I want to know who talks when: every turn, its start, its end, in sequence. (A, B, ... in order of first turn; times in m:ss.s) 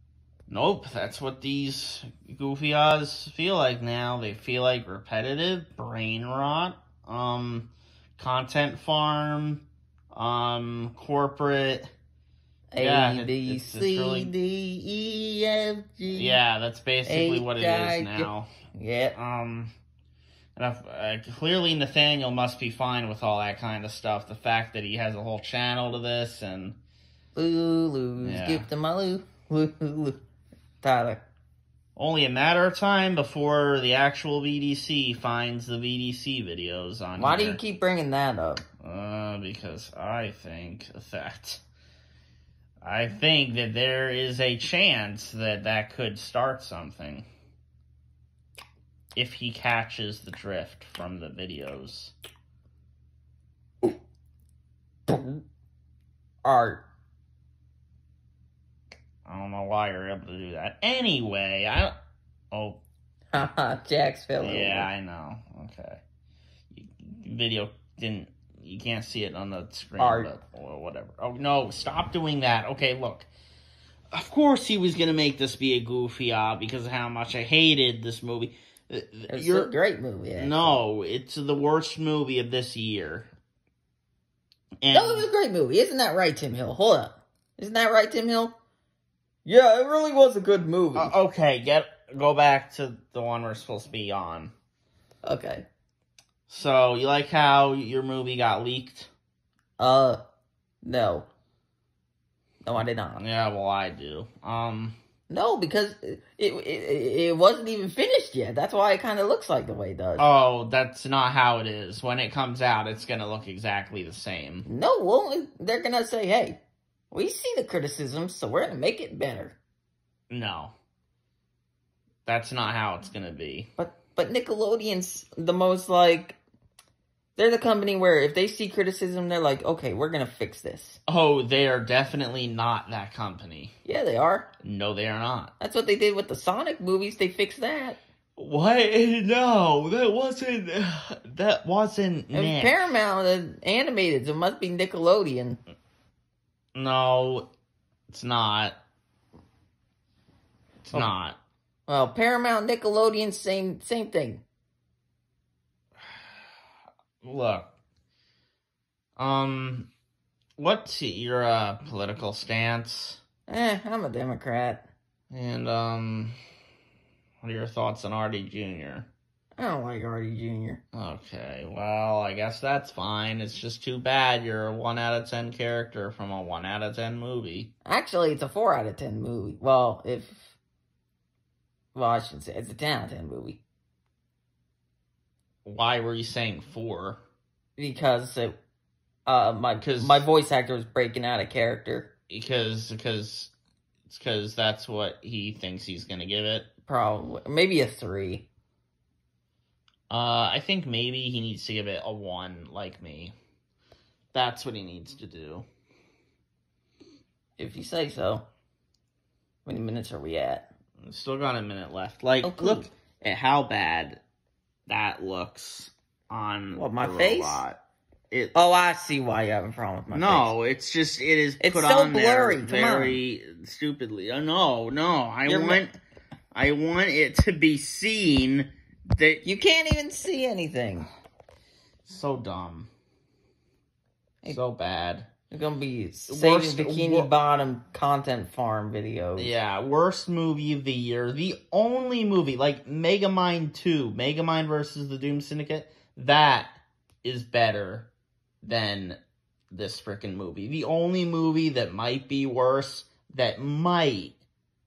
0:00.5-0:11.9 A
0:12.7-0:16.4 B
0:12.8-0:14.3 A
0:16.1-0:18.5 A
0:17.0-0:19.2 B
0:19.1-0:19.7 A
0:20.6-0:26.8 A
0:27.3-0:30.2 B
0:28.2-0:28.6 A
0:30.8-0:31.3 B
0:32.0-0:37.6 A
0:37.2-0:38.6 B
0:38.8-0:41.6 A
0:42.8-0:47.2 A
0:49.2-0:52.1 A
0:55.1-0:55.4 B
0:56.4-0:56.8 B
0:59.2-1:01.9 A
1:02.5-1:02.8 A
1:03.3-1:04.9 B
1:04.4-1:06.0 A
1:06.7-1:13.3 A
1:10.0-1:10.3 B
1:14.1-1:19.7 A
1:19.3-1:20.8 B
1:20.4-1:23.3 A
1:24.8-1:25.3 A
1:24.9-1:28.5 B
1:29.4-1:31.1 B
1:31.0-1:34.5 A
1:35.2-1:35.7 B
1:36.5-1:39.1 A
1:39.8-1:40.2 B
1:40.8-1:41.3 B
1:42.6-1:43.2 B
1:43.2-1:45.0 A
1:45.3-1:50.2 B
1:50.2-1:54.7 A
1:54.6-1:56.6 B
1:57.1-1:59.6 B
2:00.3-2:00.7 A
2:02.2-2:03.7 A
2:03.8-2:06.4 B
2:07.4-2:11.0 B
2:11.0-2:13.7 A
2:13.8-2:14.5 B
2:14.6-2:15.5 A
2:15.6-2:18.0 B
2:18.4-2:22.8 A
2:22.3-2:25.6 B
2:26.7-2:27.5 A
2:28.1-2:28.8 A
2:30.8-2:31.4 A
2:31.9-2:34.4 B
2:37.2-2:37.7 A
2:39.2-2:39.9 A
2:40.6-2:43.2 A
2:43.5-2:44.9 B
2:45.3-2:46.4 A
2:47.4-2:49.1 A
2:49.6-2:50.8 B
2:50.9-2:57.7 A
2:57.8-3:00.6 B
3:01.9-3:03.6 B
3:05.6-3:07.2 A
3:07.8-3:08.6 B
3:09.2-3:12.1 B
3:09.8-3:10.2 A
3:12.3-3:13.5 A
3:14.1-3:16.7 A
3:16.9-3:18.5 B
3:20.1-3:23.3 A
3:24.3-3:25.6 A
3:27.6-3:28.4 B
3:29.6-3:30.7 B
3:31.0-3:34.2 A
3:32.4-3:32.9 B
3:34.9-3:37.8 A
3:36.7-3:37.6 B
3:38.3-3:38.6 A
3:38.5-3:40.5 B
3:40.1-3:45.9 A
3:41.6-3:43.2 B
3:45.4-3:45.8 B
3:46.5-3:49.4 A
3:49.4-3:51.1 B
3:52.0-3:52.9 A
3:54.4-3:55.3 A
3:55.5-3:59.5 B
3:56.3-3:57.3 A
3:59.4-4:08.1 A
4:08.6-4:09.2 A
4:09.7-4:14.4 A